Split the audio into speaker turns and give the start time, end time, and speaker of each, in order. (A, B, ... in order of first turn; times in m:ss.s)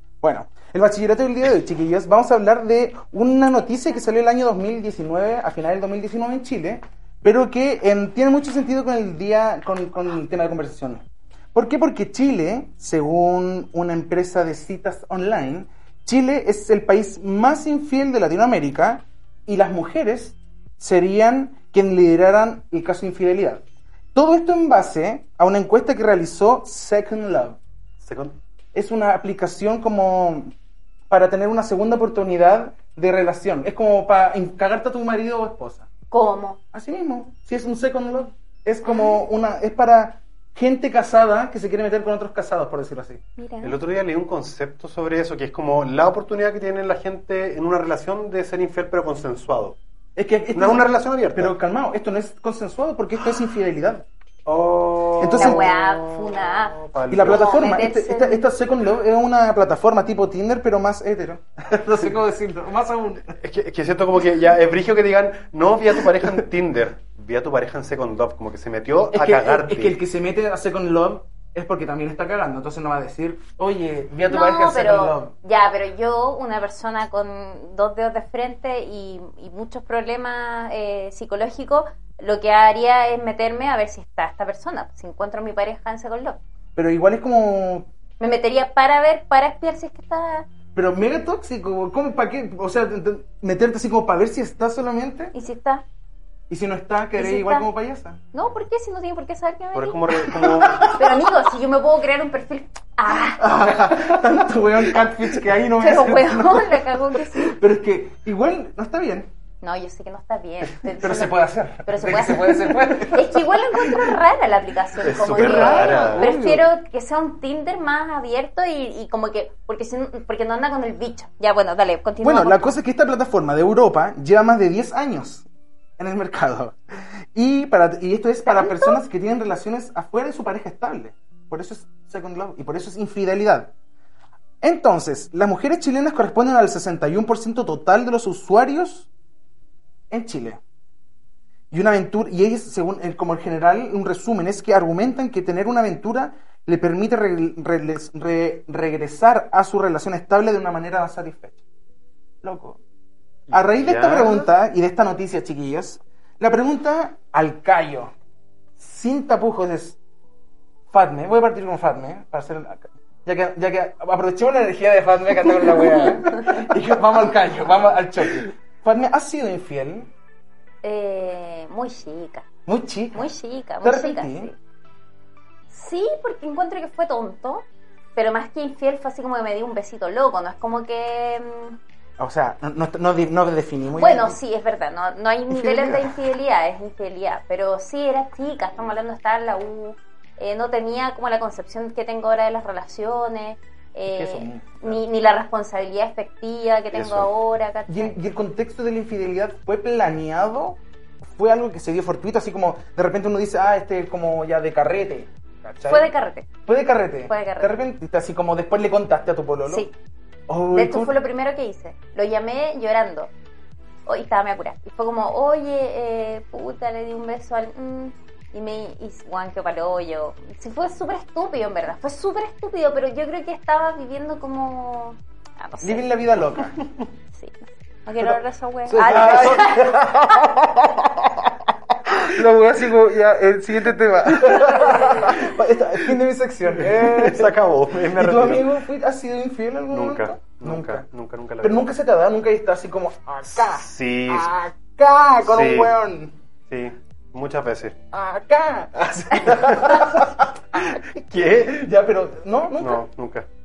0:00.2-0:27.6 A
0:28.0-0:28.4 B
0:28.7-0:30.5 A
0:31.1-0:35.9 A
0:36.1-0:36.6 C
0:36.7-0:43.2 A
0:38.8-0:39.2 C
0:43.4-0:43.8 C
0:43.6-0:49.8 B
0:50.2-0:55.7 A
0:50.5-0:51.6 B
0:54.9-0:57.6 B
0:55.3-0:58.4 C
0:57.1-1:03.4 A
1:03.4-1:10.0 B
1:09.1-1:15.3 A
1:14.3-1:26.4 C
1:26.8-1:27.9 A
1:28.2-1:30.4 C
1:30.7-1:35.3 A
1:35.3-1:35.8 C
1:36.5-1:38.2 A
1:37.2-1:37.7 C
1:38.3-1:43.9 C
1:39.7-1:41.0 B
1:40.3-1:41.0 A
1:43.4-1:49.3 A
1:45.8-1:47.5 C
1:49.6-2:02.8 C
1:51.0-1:54.1 A
1:55.0-1:56.3 B
1:55.1-1:56.7 A
2:02.2-2:05.4 A
2:06.0-2:06.8 A
2:07.3-2:13.7 A
2:08.4-2:09.0 C
2:14.6-2:19.1 A
2:20.1-2:20.6 A
2:21.7-2:31.6 A
2:32.4-2:32.8 A
2:33.5-2:34.4 B
2:33.5-2:38.1 A
2:38.8-2:40.0 A
2:40.9-2:50.1 A
2:50.8-2:52.4 C
2:52.6-2:53.3 A
2:53.1-2:54.5 C
2:53.8-2:54.5 A
2:55.7-2:57.6 C
2:58.2-3:01.8 C
3:02.2-3:04.4 A
3:04.0-3:18.2 C
3:05.5-3:06.1 A
3:14.1-3:15.0 A
3:16.9-3:17.3 B
3:17.9-3:26.1 A
3:25.9-3:26.5 C
3:26.6-3:29.9 A
3:27.3-3:27.8 C
3:29.7-3:29.9 C
3:30.5-3:31.2 A
3:30.7-3:33.3 C
3:34.0-3:46.2 C
3:45.8-3:46.8 A
3:47.3-3:50.6 C
3:48.9-4:01.0 A
3:49.1-3:49.6 B
3:54.6-3:55.2 C
3:56.8-3:58.7 B
3:59.9-4:01.9 B
4:01.6-4:06.4 A
4:03.5-4:04.6 B
4:05.4-4:06.0 B
4:06.7-4:08.0 B
4:08.1-4:11.0 A
4:09.4-4:11.9 B
4:11.6-4:13.0 A
4:12.8-4:13.4 B